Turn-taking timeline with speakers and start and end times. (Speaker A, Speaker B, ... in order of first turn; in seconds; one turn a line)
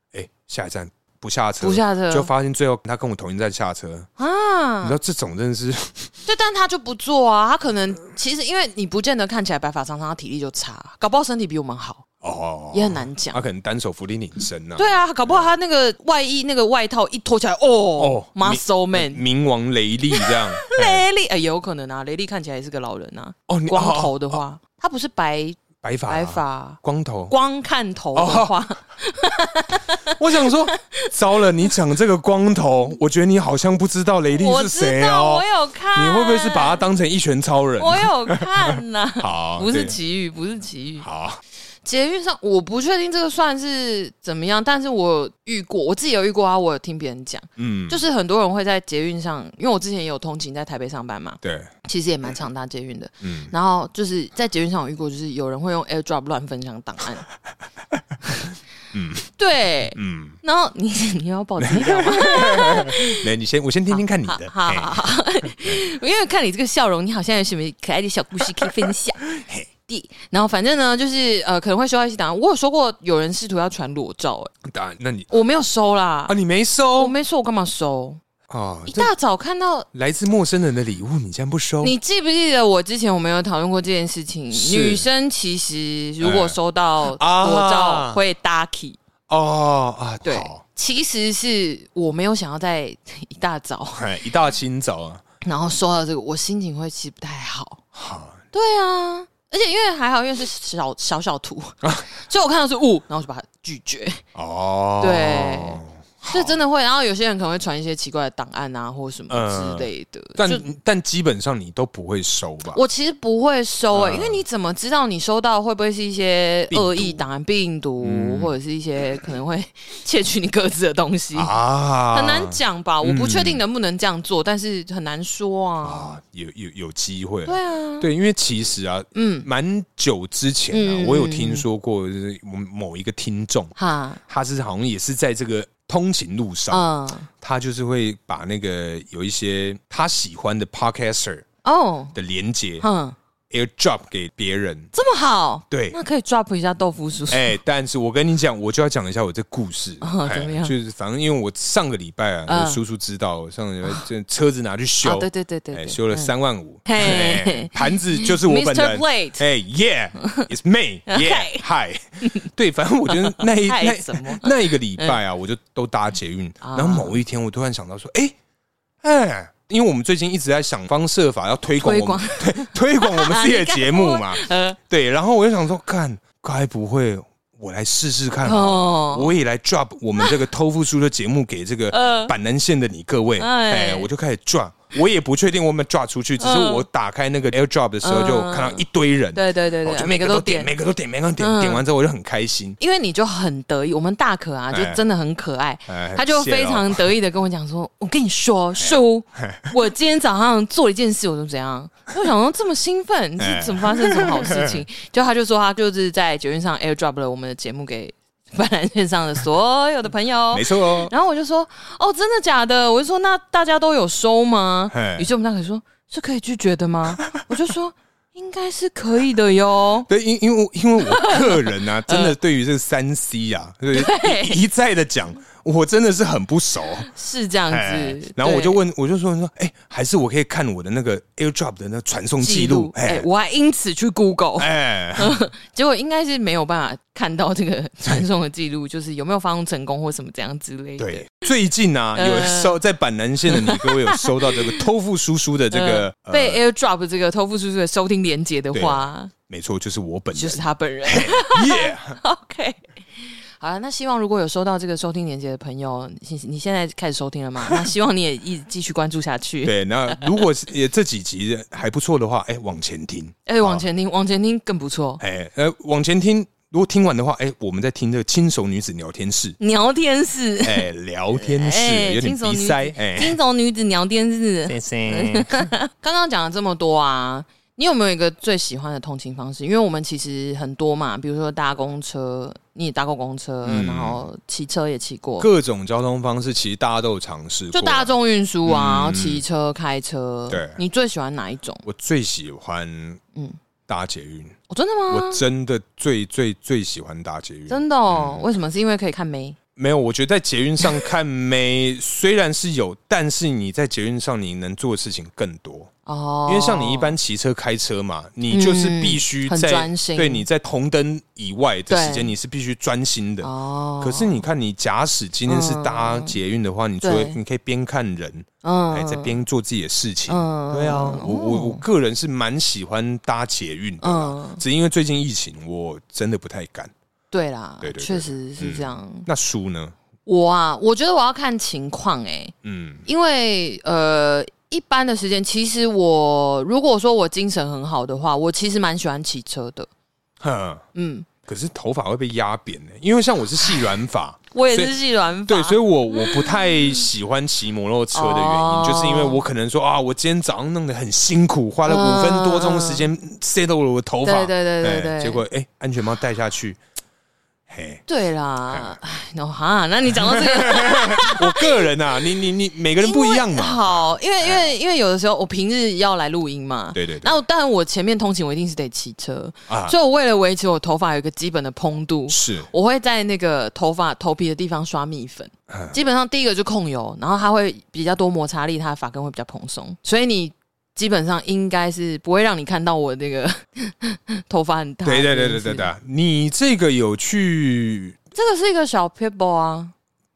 Speaker A: 0.1-4.1
Speaker B: 1.6-2.3
Speaker B: 4.2-5.0
Speaker A: 4.8-6.1
Speaker B: 6.2-12.1
Speaker A: 12.2-15.4
Speaker B: 12.7-13.4
Speaker B: 14.8-19.2
Speaker A: 18.0-21.0
Speaker B: 20.1-31.7
Speaker A: 23.5-24.4
Speaker A: 25.8-27.3
Speaker A: 28.1-28.6
Speaker A: 30.0-40.0
Speaker B: 34.4-36.9
Speaker B: 37.8-41.1
Speaker A: 41.0-41.4
Speaker B: 41.8-57.2
Speaker A: 47.6-48.0
Speaker A: 51.4-51.7
Speaker A: 53.2-53.5
Speaker A: 58.9-59.3
Speaker B: 59.4-63.3
Speaker A: 59.9-60.4
Speaker A: 61.6-65.8
Speaker B: 63.9-69.2
Speaker A: 68.4-69.7
Speaker B: 69.9-74.5
Speaker A: 74.6-75.3
Speaker B: 75.3-76.3
Speaker A: 76.3-77.1
Speaker B: 76.9-78.2
Speaker A: 78.5-79.1
Speaker B: 78.9-79.9
Speaker A: 79.9-81.9
Speaker B: 81.8-89.0
Speaker A: 84.5-85.0
Speaker A: 86.2-88.2
Speaker A: 89.3-90.6
Speaker B: 90.2-94.0
Speaker A: 93.9-95.2
Speaker B: 95.4-97.8
Speaker A: 97.9-98.4
Speaker B: 98.5-104.2
Speaker A: 104.3-106.6
Speaker B: 105.0-110.7
Speaker A: 109.3-112.8
Speaker B: 112.7-121.6
Speaker A: 113.9-114.4
Speaker A: 116.7-117.2
Speaker A: 118.0-118.5
Speaker A: 121.3-123.6
Speaker B: 122.1-126.2
Speaker A: 125.8-133.7
Speaker B: 127.5-128.1
Speaker B: 129.1-129.5
Speaker B: 130.7-131.6
Speaker B: 133.8-134.2
Speaker A: 134.2-136.9
Speaker B: 136.7-137.3
Speaker A: 137.4-141.4
Speaker B: 141.6-142.1
Speaker A: 142.1-142.8
Speaker B: 142.8-143.2
Speaker A: 143.5-144.9
Speaker B: 144.9-147.6
Speaker A: 145.7-146.0
Speaker A: 147.3-168.3
Speaker B: 150.0-150.7
Speaker B: 152.5-152.8
Speaker B: 155.0-156.3
Speaker B: 156.8-159.4
Speaker B: 160.2-160.5
Speaker B: 161.1-161.6
Speaker B: 163.1-165.2
Speaker B: 166.6-167.2
Speaker A: 169.0-192.8
Speaker B: 171.8-174.8
Speaker B: 178.4-179.3
Speaker B: 181.9-182.3
Speaker B: 183.4-184.1
Speaker B: 186.4-186.8
Speaker B: 188.0-190.7
Speaker B: 191.4-191.8
Speaker B: 192.8-220.1
Speaker A: 194.7-195.0
Speaker A: 195.9-197.0
Speaker A: 198.8-199.7
Speaker A: 203.4-204.8
Speaker A: 210.5-211.1
Speaker A: 214.9-215.3
Speaker A: 217.1-217.6
Speaker A: 220.1-227.1
Speaker B: 221.0-222.3
Speaker B: 223.9-224.6
Speaker B: 227.0-228.8
Speaker A: 227.7-233.3
Speaker B: 232.4-241.3
Speaker A: 234.6-235.4
Speaker A: 241.0-246.6
Speaker B: 242.2-242.8
Speaker B: 243.5-244.8
Speaker B: 245.7-249.3
Speaker A: 248.7-252.2
Speaker B: 250.3-260.4
Speaker A: 257.6-257.9
Speaker A: 259.6-263.8
Speaker B: 263.5-265.2
Speaker A: 265.2-269.6
Speaker B: 269.6-285.5
Speaker A: 270.6-273.4
Speaker A: 274.7-275.7
Speaker A: 283.6-284.2
Speaker A: 285.4-288.1
Speaker B: 287.7-291.8
Speaker A: 288.6-289.4
Speaker A: 290.5-290.8
Speaker A: 291.8-293.2
Speaker A: 293.9-294.6
Speaker B: 294.7-295.4
Speaker A: 295.1-298.4
Speaker B: 297.7-299.6
Speaker A: 299.8-305.9
Speaker B: 306.1-307.1
Speaker A: 306.5-326.9
Speaker B: 308.5-310.4
Speaker B: 311.9-312.3
Speaker B: 313.4-314.4
Speaker B: 315.5-316.4
Speaker B: 317.0-317.4
Speaker B: 318.6-319.4
Speaker B: 320.3-321.8
Speaker B: 324.0-324.6
Speaker B: 327.3-329.3
Speaker A: 327.8-329.9
Speaker B: 330.2-332.5
Speaker A: 332.6-333.0
Speaker B: 333.1-339.9
Speaker A: 340.4-340.8
Speaker B: 340.9-341.3
Speaker A: 341.5-356.8
Speaker B: 344.5-347.0
Speaker B: 348.1-349.4
Speaker B: 351.9-353.1
Speaker B: 354.2-355.4
Speaker A: 357.7-358.0
Speaker B: 358.1-362.4
Speaker A: 358.7-359.0
Speaker A: 360.1-364.7
Speaker B: 363.0-385.9
Speaker A: 366.9-367.4
Speaker A: 369.7-369.9
Speaker A: 372.3-372.7
Speaker A: 375.7-376.0
Speaker A: 385.0-388.2
Speaker B: 388.3-389.9